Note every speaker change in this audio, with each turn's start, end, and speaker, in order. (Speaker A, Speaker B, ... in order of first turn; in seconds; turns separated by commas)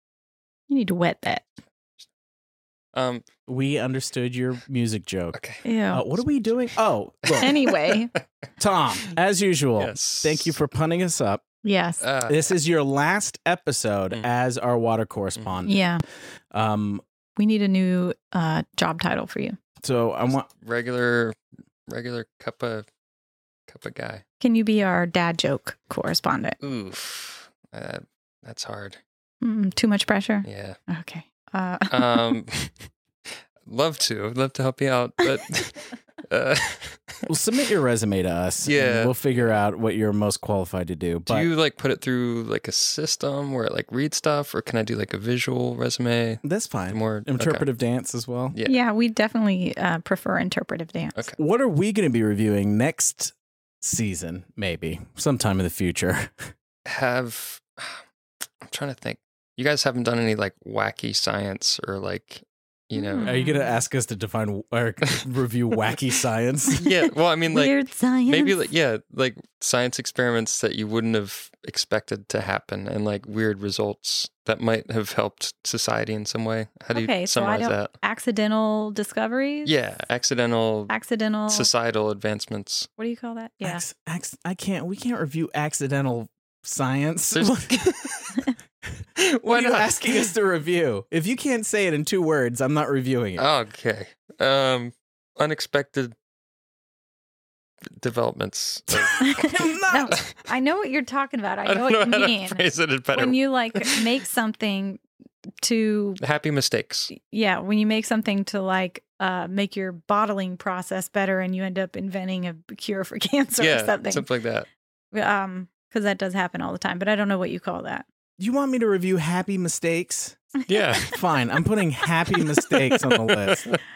Speaker A: 0.7-1.4, Speaker B: 2.9-3.2, Speaker C: 3.5-7.6, Speaker B: 5.3-5.6, Speaker A: 5.7-6.1, Speaker B: 7.3-8.2, Speaker A: 7.4-8.1, Speaker C: 8.6-11.4, Speaker B: 9.8-10.6, Speaker A: 11.6-12.0, Speaker B: 12.0-12.5, Speaker C: 12.3-15.8, Speaker B: 15.4-15.6, Speaker A: 15.7-16.0, Speaker C: 16.5-17.0, Speaker A: 17.4-19.6, Speaker C: 19.8-20.5, Speaker B: 20.3-21.4, Speaker B: 21.9-22.9, Speaker B: 23.7-24.2, Speaker A: 24.4-26.6, Speaker B: 26.6-29.0, Speaker A: 29.4-32.4, Speaker B: 30.4-30.8, Speaker B: 31.9-32.8, Speaker B: 33.6-37.2, Speaker C: 37.3-41.5, Speaker B: 38.6-39.6, Speaker B: 41.3-47.7, Speaker C: 46.4-48.6, Speaker A: 48.6-51.2, Speaker C: 51.4-56.5, Speaker B: 56.9-58.0, Speaker B: 58.6-63.3, Speaker A: 62.9-63.8, Speaker C: 63.2-66.8, Speaker B: 66.8-67.7, Speaker A: 67.5-68.6, Speaker B: 68.3-77.9, Speaker A: 76.9-79.7, Speaker B: 79.7-80.9, Speaker A: 80.9-81.7, Speaker B: 81.5-82.9, Speaker A: 83.0-83.8, Speaker C: 83.6-88.1, Speaker B: 87.3-88.5, Speaker B: 89.2-90.3, Speaker C: 89.5-93.5, Speaker B: 93.4-96.2, Speaker B: 98.0-99.2, Speaker C: 98.9-100.2, Speaker A: 99.2-105.0, Speaker B: 101.7-104.0, Speaker A: 105.6-106.2, Speaker B: 106.2-107.1, Speaker A: 107.1-114.3, Speaker B: 113.6-114.7, Speaker A: 115.1-118.1, Speaker C: 118.4-120.4, Speaker B: 120.7-121.2, Speaker C: 121.0-123.8, Speaker B: 122.3-123.8